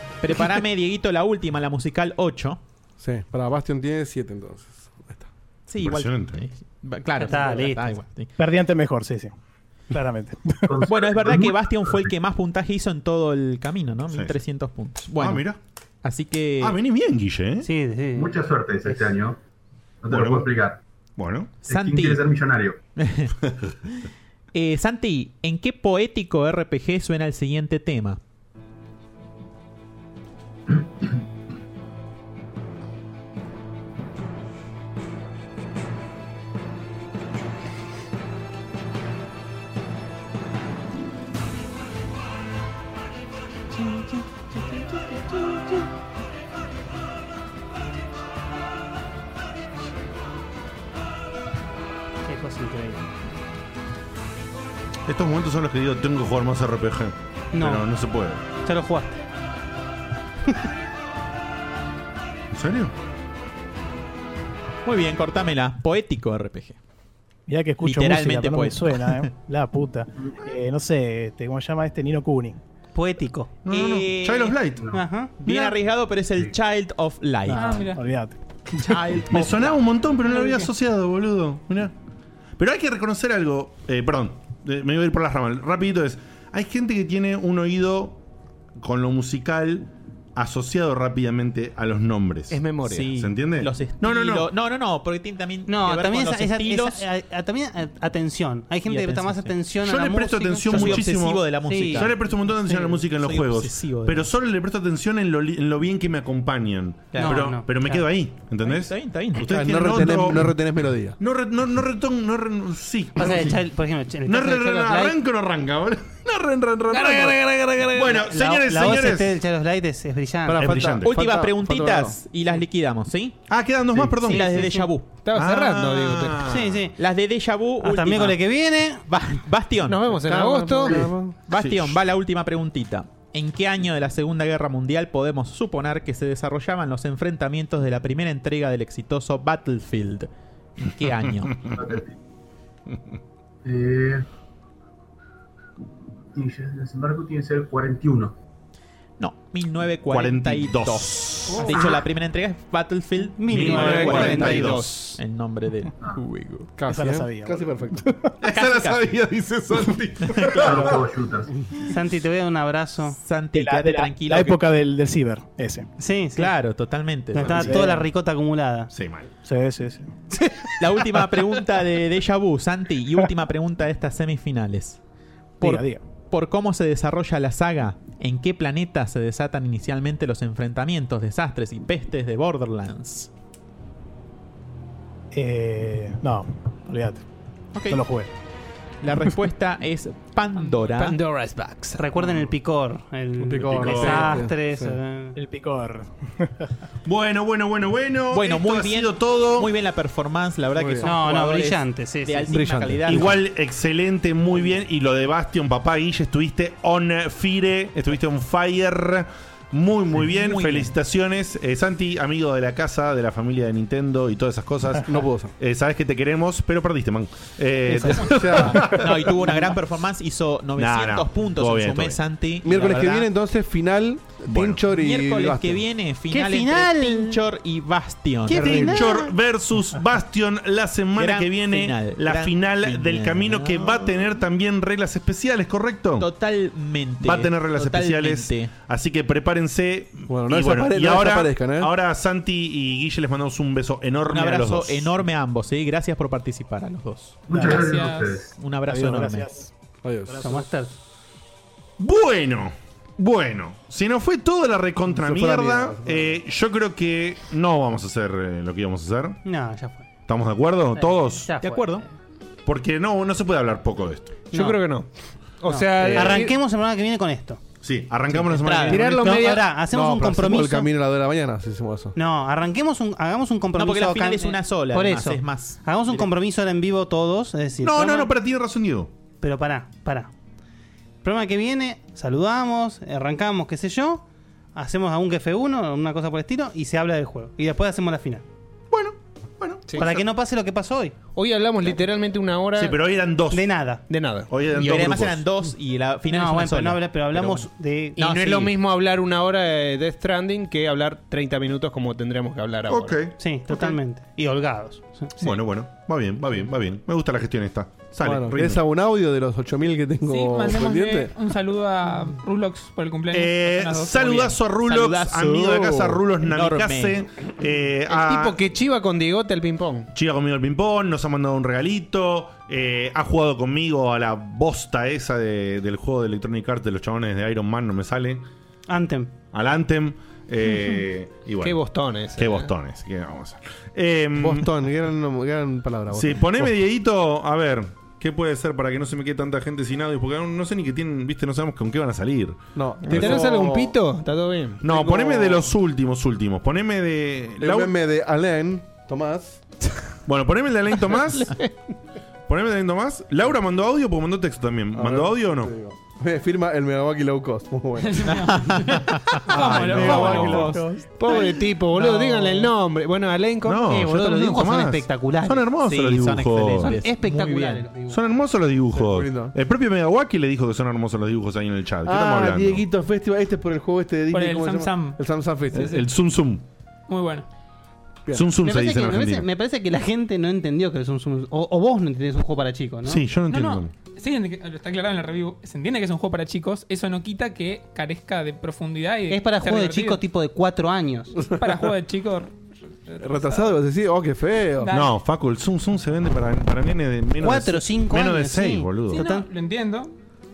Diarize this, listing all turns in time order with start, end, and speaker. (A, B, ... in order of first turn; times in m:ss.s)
0:00.2-0:02.6 A
0:03.0-0:05.3 B
0:05.7-0:08.3 A
0:05.8-0:06.4 C
0:07.2-0:08.0 D
0:08.4-0:09.3 E
0:09.9-0:10.7 E
0:10.7-0:12.1 F
0:10.9-0:15.4 A
0:14.1-0:14.4 C
0:15.2-0:15.6 C
0:16.0-0:16.8 A
0:16.6-0:17.7 C
0:17.6-0:18.4 D
0:18.1-0:19.4 F
0:20.0-0:20.8 F
0:20.1-0:20.5 C
0:21.2-0:21.6 C
0:21.6-0:22.8 F
0:21.6-0:22.2 A
0:23.0-0:23.3 A
0:24.5-0:28.2 A
0:43.8-0:44.0 A
0:44.6-0:45.5 A
0:52.2-0:53.0 D
0:55.1-0:58.4 C
0:57.5-0:57.9 D
0:58.6-0:59.2 D
1:02.5-1:02.9 C
1:04.8-1:06.8 A
1:07.5-1:12.6 E
1:07.8-1:09.3 A
1:12.9-1:13.6 D
1:13.6-1:14.9 C
1:13.7-1:14.6 A
1:14.9-1:15.5 D
1:15.4-1:17.8 A
1:17.5-1:19.0 E
1:17.5-1:18.0 G
1:18.8-1:19.8 A
1:19.3-1:21.9 C
1:20.2-1:20.7 G
1:22.6-1:28.2 C
1:28.8-1:34.5 C
1:32.5-1:33.1 H
1:32.8-1:37.0 A
1:35.7-1:42.1 D
1:38.8-1:39.5 A
1:39.8-1:50.5 C
1:40.7-1:44.3 A
1:47.1-1:48.0 D
1:48.6-1:49.5 A
1:49.4-1:51.2 B
1:51.2-1:53.6 C
1:53.2-1:55.2 D
1:54.2-1:57.4 C
1:56.9-1:58.1 H
1:57.9-1:59.3 C
1:58.1-2:00.8 D
2:00.5-2:02.2 B
2:00.6-2:01.1 C
2:01.0-2:03.4 A
2:03.5-2:04.6 C
2:04.2-2:05.1 A
2:04.2-2:04.9 D
2:05.2-2:06.4 H
2:05.3-2:06.9 C
2:06.4-2:07.0 D
2:07.0-2:10.2 A
2:07.8-2:09.2 D
2:09.8-2:11.1 H
2:10.2-2:11.3 B
2:11.5-2:21.5 A
2:11.5-2:12.0 C
2:21.7-2:22.1 F
2:23.6-2:24.2 F
2:26.3-2:28.3 F
2:29.2-2:36.7 A
2:30.1-2:31.7 C
2:31.5-2:31.9 G
2:33.4-2:34.8 D
2:33.5-2:34.8 C
2:33.7-2:35.2 H
2:36.8-2:38.0 B
2:36.9-2:38.3 E
2:38.4-2:40.7 C
2:38.4-2:39.0 A
2:40.2-2:41.0 A
2:40.6-2:41.5 F
2:41.9-2:43.2 D
2:43.2-2:44.6 A
2:43.5-2:45.9 E
2:46.0-2:46.7 D
2:46.4-2:47.9 A
2:47.3-2:48.9 D
2:48.9-2:49.3 C
2:49.4-2:50.2 E
2:50.8-2:55.0 A
2:55.6-3:03.3 A
2:55.6-2:56.0 E
3:05.3-3:07.2 E
3:07.7-3:08.0 A
3:07.9-3:08.3 E
3:09.0-3:11.2 A
3:10.6-3:10.8 G
3:10.9-3:12.3 H
3:12.0-3:15.3 D
3:13.4-3:15.0 B
3:13.8-3:14.4 C
3:15.3-3:16.7 E
3:17.0-3:19.7 C
3:18.3-3:23.4 A
3:20.7-3:21.1 B
3:21.0-3:22.8 D
3:22.5-3:23.2 B
3:23.1-3:35.0 C
3:30.2-3:30.9 A
3:35.0-3:35.5 B
3:35.6-3:39.1 C
3:38.2-3:39.0 B
3:38.9-3:43.3 A
3:40.8-3:42.2 C
3:42.6-3:45.8 B
3:44.5-3:44.8 C
3:44.9-3:49.0 A
3:46.3-3:47.4 D
3:48.5-3:49.3 D
3:48.8-3:56.3 C
3:51.2-3:54.1 A
3:56.2-3:58.7 A
3:57.2-4:05.2 C
4:00.3-4:01.9 B
4:04.2-4:07.4 A
4:07.5-4:08.5 F
4:07.5-4:07.9 E
4:07.7-4:08.4 G
4:08.5-4:09.5 A
4:08.8-4:09.7 E
4:10.0-4:10.6 B
4:10.3-4:10.6 E
4:10.4-4:11.0 D
4:12.0-4:19.4 C
4:15.1-4:16.4 B
4:19.4-4:20.1 D
4:20.3-4:21.5 C
4:20.9-4:22.0 D
4:21.6-4:22.0 A
4:22.6-4:24.3 C
4:24.5-4:24.8 D
4:24.5-4:26.5 H
4:25.6-4:27.6 D
4:26.0-4:26.4 B
4:27.8-4:29.4 C
4:28.5-4:29.3 A
4:28.8-4:29.6 H
4:29.0-4:30.9 D
4:29.9-4:32.1 B
4:32.1-4:38.3 D
4:33.7-4:35.8 A
4:37.8-4:39.1 C
4:39.4-4:40.3 D
4:41.2-4:44.2 D
4:44.7-4:48.4 D
4:48.9-4:50.1 C
4:49.9-4:50.1 H
4:50.0-4:51.1 D
4:51.3-4:52.9 H
4:52.8-4:53.7 C
4:53.5-4:54.0 D
4:54.1-4:54.9 H
4:54.5-4:55.4 C
4:54.7-4:57.6 A
4:56.3-4:58.4 D
4:58.2-4:58.7 A
4:58.2-5:03.2 H
5:02.9-5:03.4 C
5:03.4-5:05.5 D
5:05.4-5:08.8 C
5:08.2-5:11.3 B
5:10.2-5:14.6 G
5:13.3-5:18.6 C
5:14.7-5:17.2 A
5:18.1-5:20.1 H
5:20.1-5:28.4 C
5:28.9-5:29.3 D
5:29.5-5:31.8 C
5:31.6-5:32.7 H
5:32.4-5:34.6 C
5:34.4-5:36.7 B
5:36.1-5:43.4 C
5:42.7-5:43.9 B
5:43.1-5:44.8 H
5:44.8-5:47.9 C
5:47.6-5:49.6 B
5:50.2-5:51.5 C
5:52.5-5:55.7 C
5:54.9-5:58.4 B
5:58.0-6:00.8 G
5:58.4-5:59.4 A
5:59.6-6:00.4 B
5:59.6-6:01.0 E
6:00.0-6:00.6 C
6:00.0-6:00.8 A
6:01.2-6:03.8 H
6:01.9-6:02.7 D
6:03.6-6:07.0 C
6:03.8-6:05.7 D
6:05.8-6:07.9 A
6:06.8-6:08.2 D
6:08.1-6:12.8 C
6:08.9-6:09.5 B
6:12.0-6:16.0 B
6:14.3-6:15.2 G
6:15.7-6:16.6 C
6:17.1-6:17.5 G
6:18.2-6:18.5 B
6:18.3-6:19.5 C
6:18.6-6:23.2 D
6:23.0-6:23.9 C
6:23.5-6:30.2 G
6:29.3-6:31.4 D
6:31.4-6:31.8 B
6:31.5-6:33.7 G
6:33.2-6:34.9 B
6:34.8-6:35.2 G
6:34.9-6:39.2 C
6:37.4-6:39.5 D
6:39.1-6:40.1 G